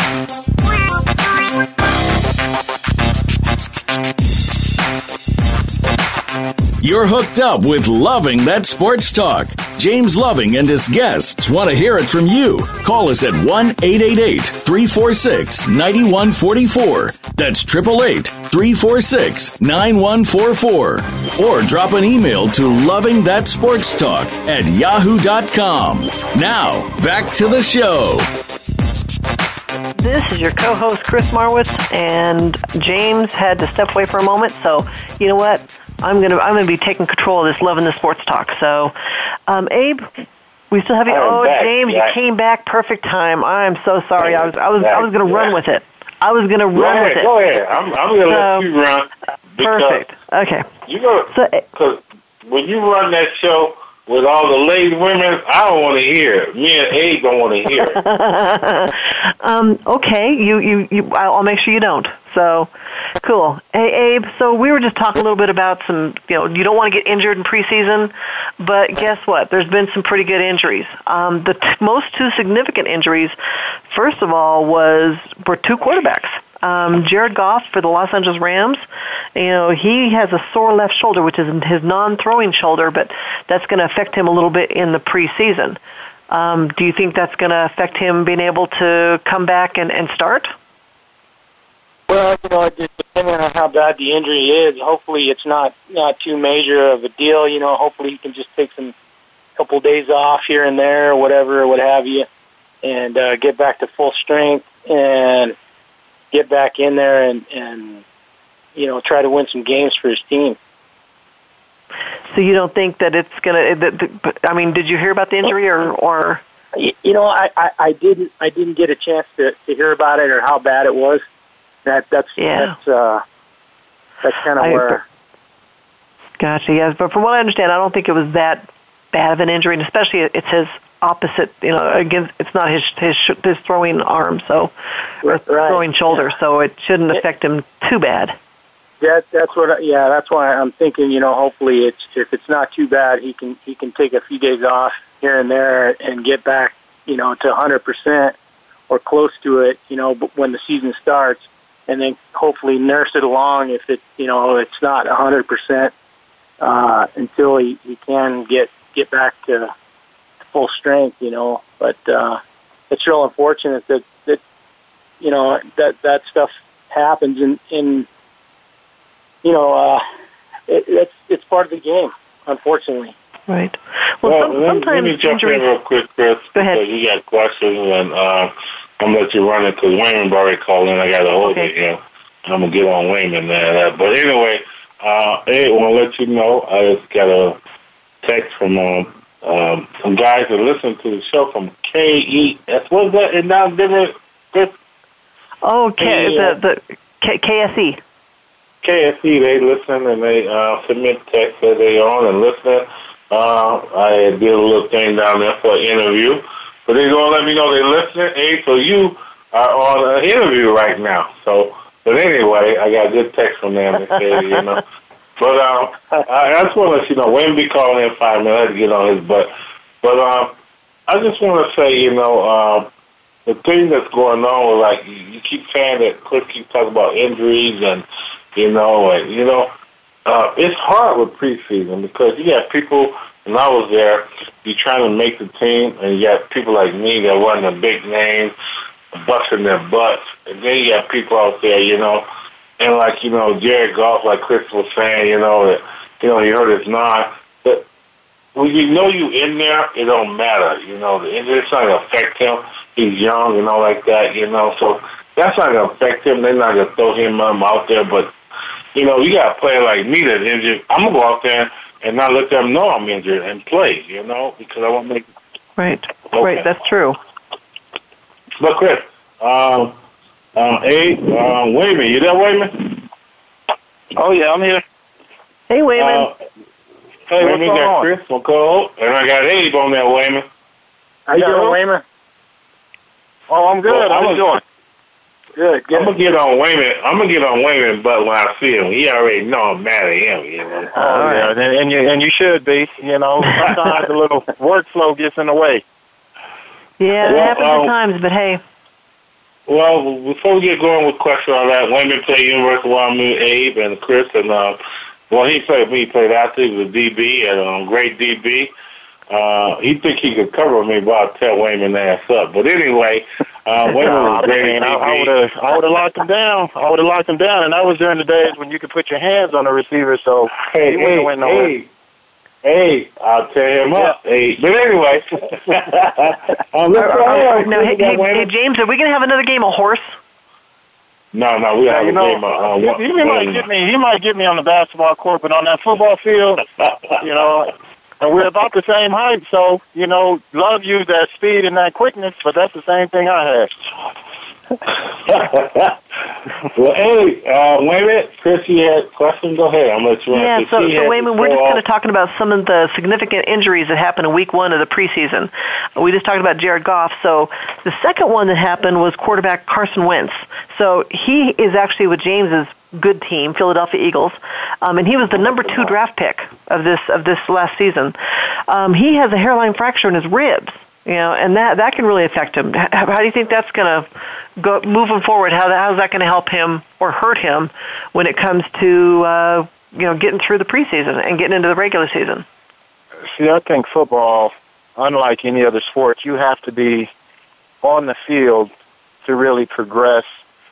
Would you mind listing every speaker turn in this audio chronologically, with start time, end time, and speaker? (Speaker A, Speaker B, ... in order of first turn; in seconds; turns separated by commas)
Speaker A: 6.8-28.3, Speaker B: 30.0-38.9, Speaker B: 39.5-40.1, Speaker B: 40.7-47.3, Speaker C: 41.1-42.1, Speaker C: 44.2-45.6, Speaker C: 46.7-50.0, Speaker B: 48.3-48.7, Speaker B: 49.6-50.7, Speaker C: 50.9-58.0, Speaker B: 51.3-51.6, Speaker B: 57.9-62.7, Speaker B: 63.2-73.3, Speaker B: 73.9-78.8, Speaker B: 79.3-85.8, Speaker B: 86.3-90.5, Speaker D: 92.1-98.9, Speaker D: 99.6-102.2, Speaker D: 102.8-105.5, Speaker D: 106.3-108.0, Speaker D: 108.8-110.6, Speaker B: 112.3-116.4, Speaker D: 116.7-121.2, Speaker D: 121.8-123.2, Speaker B: 122.4-122.8, Speaker D: 124.2-125.0, Speaker B: 124.6-125.0, Speaker B: 126.4-138.3, Speaker D: 135.2-136.2, Speaker D: 139.0-148.3, Speaker D: 148.9-155.9, Speaker D: 156.6-159.7, Speaker D: 160.5-164.4, Speaker D: 165.2-168.1, Speaker D: 169.4-170.0, Speaker D: 170.7-173.1, Speaker B: 173.5-175.7, Speaker C: 174.2-187.6, Speaker B: 176.5-176.8, Speaker B: 181.4-181.7, Speaker C: 188.2-194.7, Speaker B: 195.6-198.0, Speaker D: 196.2-196.5, Speaker C: 198.8-214.8, Speaker C: 215.4-220.5, Speaker C: 221.1-222.9, Speaker C: 223.4-229.7, Speaker C: 230.2-238.5, Speaker C: 239.2-242.2, Speaker C: 242.8-247.8, Speaker C: 248.5-258.3, Speaker C: 258.9-265.2, Speaker B: 265.8-267.2, Speaker C: 266.3-266.7, Speaker C: 268.6-270.0, Speaker C: 270.6-273.0, Speaker E: 274.1-274.8, Speaker B: 275.7-276.3, Speaker C: 275.9-276.3, Speaker E: 277.3-278.1, Speaker C: 277.4-280.4, Speaker D: 281.3-282.0, Speaker E: 281.3-281.8, Speaker E: 283.5-284.6, Speaker C: 283.9-284.5, Speaker D: 285.6-286.1, Speaker C: 285.9-290.9, Speaker E: 291.0-295.8, Speaker B: 291.0-291.5, Speaker B: 297.0-298.6, Speaker C: 297.2-297.9, Speaker C: 299.7-304.8, Speaker C: 305.3-308.7, Speaker C: 309.3-315.3, Speaker E: 313.9-321.8, Speaker C: 320.6-321.9, Speaker C: 322.6-328.5, Speaker B: 326.9-330.1, Speaker C: 331.3-333.7, Speaker E: 331.8-336.6, Speaker E: 337.2-343.7, Speaker C: 345.2-346.0, Speaker C: 346.7-351.8, Speaker B: 350.3-368.1, Speaker B: 368.7-382.4, Speaker E: 383.3-387.1, Speaker E: 387.8-388.7, Speaker E: 389.2-390.4